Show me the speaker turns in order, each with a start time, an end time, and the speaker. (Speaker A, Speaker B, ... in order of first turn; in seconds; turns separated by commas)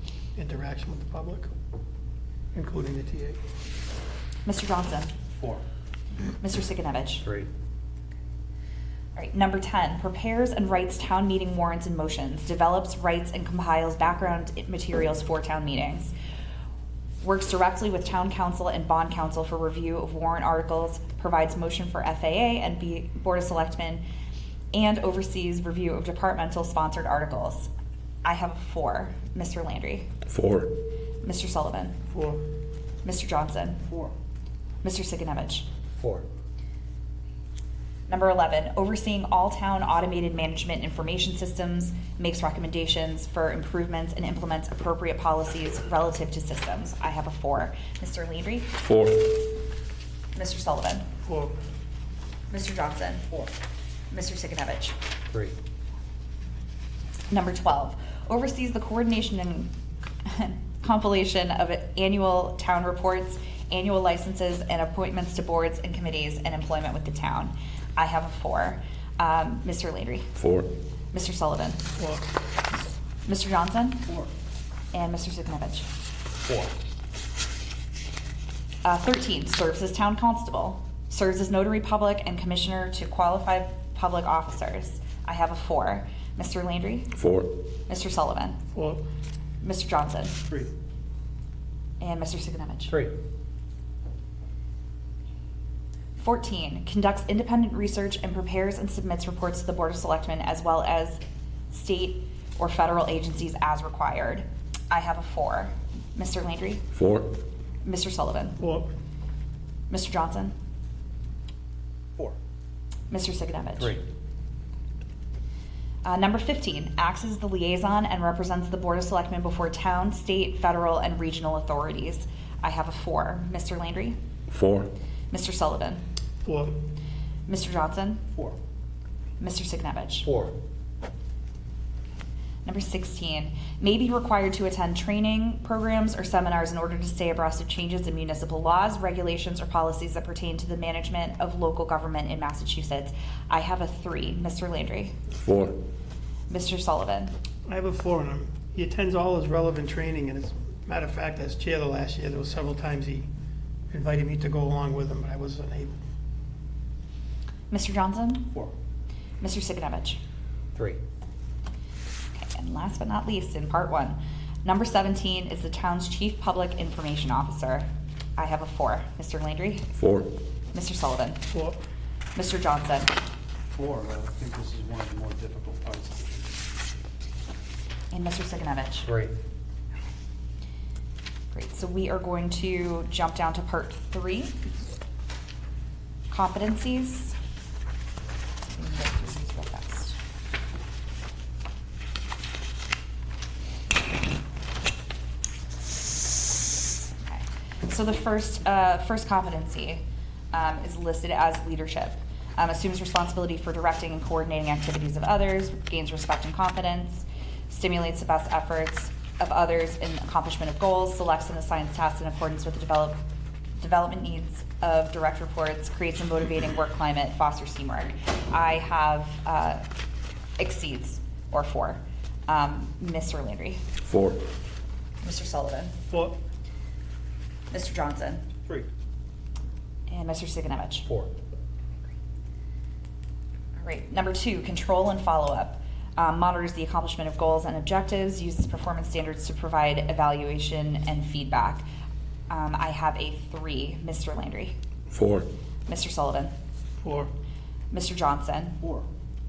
Speaker A: 0.3-1.5, Speaker A: 2.5-3.4, Speaker B: 4.4-5.1, Speaker C: 5.4-5.6, Speaker B: 6.4-7.2, Speaker B: 9.2-16.1, Speaker B: 17.2-24.0, Speaker B: 24.7-27.7, Speaker B: 28.2-30.1, Speaker D: 30.3-30.7, Speaker B: 31.2-31.9, Speaker A: 32.1-32.4, Speaker B: 33.0-33.8, Speaker C: 33.9-34.1, Speaker B: 34.8-35.6, Speaker C: 36.0-36.2, Speaker B: 38.1-48.8, Speaker D: 48.8-49.3, Speaker B: 50.3-51.0, Speaker A: 51.2-51.5, Speaker B: 52.5-53.3, Speaker B: 54.1-55.0, Speaker B: 57.3-59.7, Speaker B: 60.2-70.4, Speaker D: 70.4-70.7, Speaker B: 71.1-71.8, Speaker A: 72.0-72.2, Speaker B: 73.2-74.0, Speaker B: 74.9-75.9, Speaker C: 76.4-76.7, Speaker B: 78.8-87.1, Speaker D: 87.2-87.5, Speaker B: 87.9-88.6, Speaker A: 88.7-89.0, Speaker B: 89.6-90.4, Speaker B: 92.0-93.0, Speaker B: 96.2-106.8, Speaker D: 107.0-107.3, Speaker B: 107.8-108.6, Speaker A: 108.6-108.9, Speaker B: 109.9-110.5, Speaker B: 113.1-113.9, Speaker B: 116.0-124.2, Speaker D: 124.5-124.9, Speaker B: 125.3-126.0, Speaker A: 126.4-126.7, Speaker B: 127.5-128.2, Speaker B: 129.4-130.3, Speaker C: 130.2-130.5, Speaker B: 132.6-145.2, Speaker D: 145.4-145.8, Speaker B: 146.5-147.3, Speaker A: 147.7-153.3, Speaker A: 153.9-156.0, Speaker B: 157.7-158.5, Speaker B: 159.4-160.2, Speaker C: 160.7-161.0, Speaker B: 162.3-169.9, Speaker D: 170.0-170.3, Speaker B: 170.7-171.4, Speaker A: 171.5-171.8, Speaker B: 172.3-173.1, Speaker C: 173.7-176.4, Speaker B: 178.1-179.1, Speaker C: 179.0-179.3, Speaker B: 181.5-184.6, Speaker B: 186.3-187.3, Speaker B: 188.7-190.2, Speaker B: 197.3-213.2, Speaker B: 213.8-219.8, Speaker B: 220.6-223.8, Speaker D: 224.1-224.4, Speaker B: 225.2-225.9, Speaker A: 226.1-226.3, Speaker B: 227.7-228.4, Speaker B: 230.1-231.1, Speaker B: 233.8-241.8, Speaker B: 242.5-244.7, Speaker D: 245.1-245.5, Speaker B: 245.9-246.5, Speaker A: 247.0-247.3, Speaker B: 247.9-248.8, Speaker C: 248.8-249.1